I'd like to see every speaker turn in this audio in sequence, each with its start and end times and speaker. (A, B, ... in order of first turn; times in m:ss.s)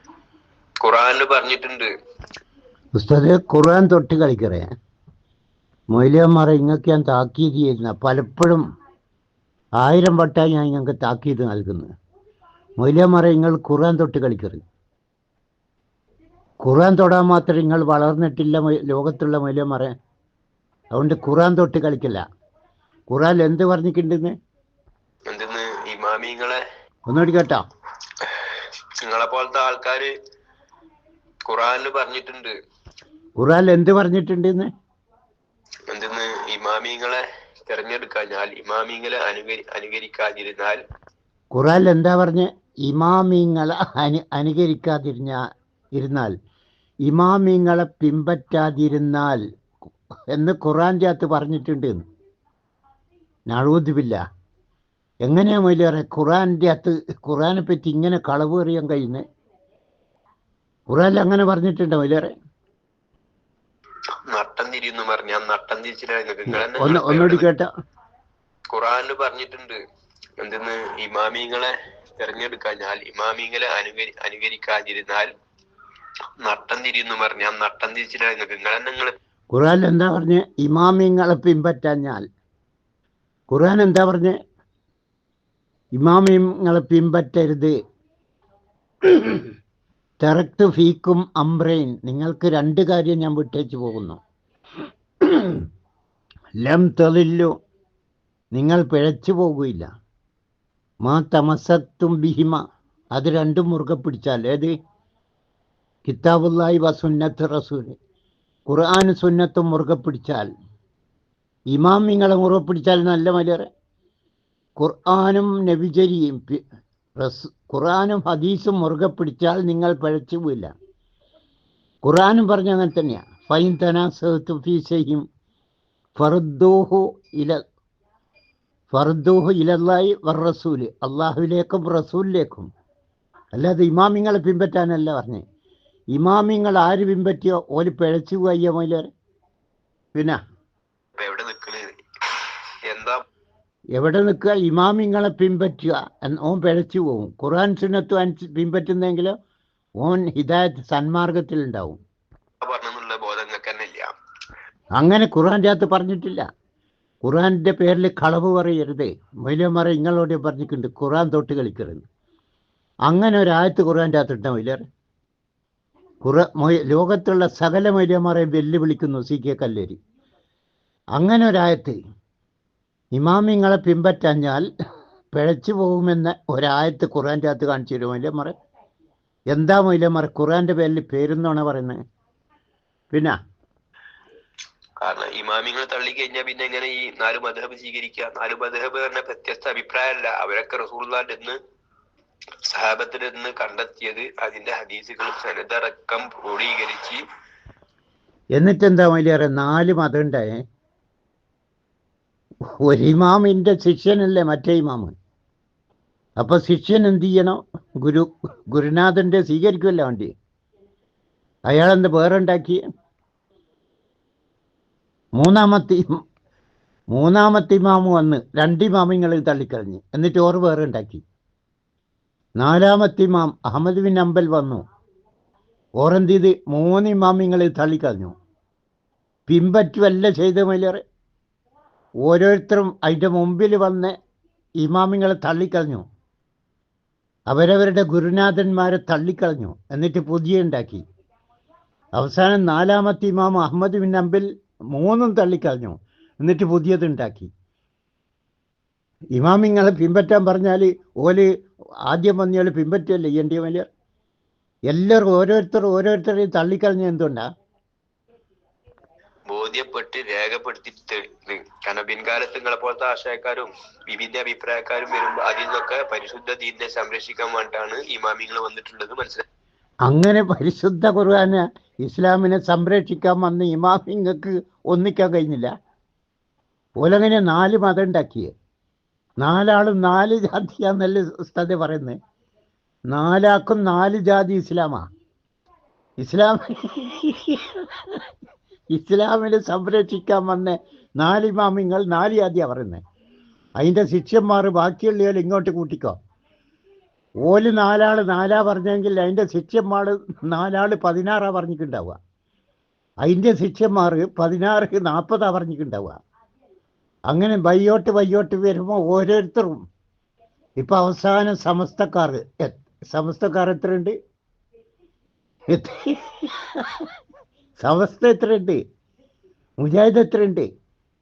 0:00.8-0:01.9 A
0:03.0-0:04.7 B
0:05.9-0:08.6 B
0:09.8-0:11.9 B
0:12.8-0:14.6 B
0:16.6-0:19.9 B
0:21.0-0:22.2 B
0:23.1-0:24.3 B
0:25.3-0:26.6 A
0:27.1-0:27.6 B
0:28.2-0:30.1 A
0:31.5-0:32.5 A
0:33.4-0:34.7 B
0:35.9-0:40.8 A
0:41.5-0:45.4 B
0:46.0-0:46.3 B
0:47.1-0:49.4 B
0:50.3-0:52.0 B
0:53.5-0:54.2 B
0:55.3-0:59.2 B
1:00.9-1:02.3 B
1:04.3-1:07.5 A
1:06.5-1:07.7 B
1:08.7-1:09.8 A
1:10.4-1:15.3 A
1:16.4-1:19.1 A
1:19.5-1:22.2 B
1:23.5-1:24.4 B
1:26.0-1:27.7 B
1:29.0-1:29.5 B
1:30.2-1:34.2 B
1:35.2-1:35.6 B
1:36.6-1:37.5 B
1:38.6-1:39.9 B
1:41.1-1:42.6 B
1:43.2-1:44.7 B
1:46.1-1:48.0 B
1:48.7-1:50.5 B
1:51.7-1:53.7 B
1:54.8-1:56.6 B
1:57.2-2:00.7 B
2:02.0-2:05.2 B
2:06.2-2:07.6 B
2:08.9-2:12.7 B
2:13.6-2:15.4 B
2:16.2-2:19.1 B
2:21.2-2:22.0 A
2:22.9-2:23.2 A
2:24.0-2:29.4 B
2:30.0-2:32.0 B
2:32.6-2:34.1 A
2:35.0-2:36.4 B
2:37.2-2:42.0 B
2:43.1-2:44.8 B
2:46.2-2:50.0 B
2:51.2-2:52.0 B
2:53.2-2:54.7 B
2:55.4-2:58.5 B
2:59.5-3:02.0 B
3:05.0-3:11.6 A
3:12.7-3:17.2 A
3:18.6-3:20.6 B
3:22.8-3:25.1 B
3:26.4-3:30.3 B
3:31.7-3:32.8 B
3:35.4-3:36.2 B
3:37.1-3:41.2 B
3:42.6-3:44.8 B
3:46.0-3:48.3 B
3:49.5-3:51.0 B
3:52.2-3:54.2 B
3:54.8-3:56.0 B
3:57.5-4:01.0 B
4:02.2-4:07.5 B
4:09.4-4:11.5 B
4:12.1-4:13.9 B
4:14.9-4:17.4 B
4:19.5-4:29.4 A
4:30.1-4:35.7 B
4:37.0-4:38.5 B
4:39.4-4:42.2 B
4:43.1-4:45.0 B
4:46.2-4:48.3 B
4:48.9-4:53.0 B
4:53.8-4:56.2 B
4:57.4-5:02.2 B
5:03.2-5:06.2 B
5:07.3-5:09.8 B
5:10.8-5:14.2 B
5:15.7-5:17.1 B
5:17.8-5:18.8 B
5:19.8-5:20.7 B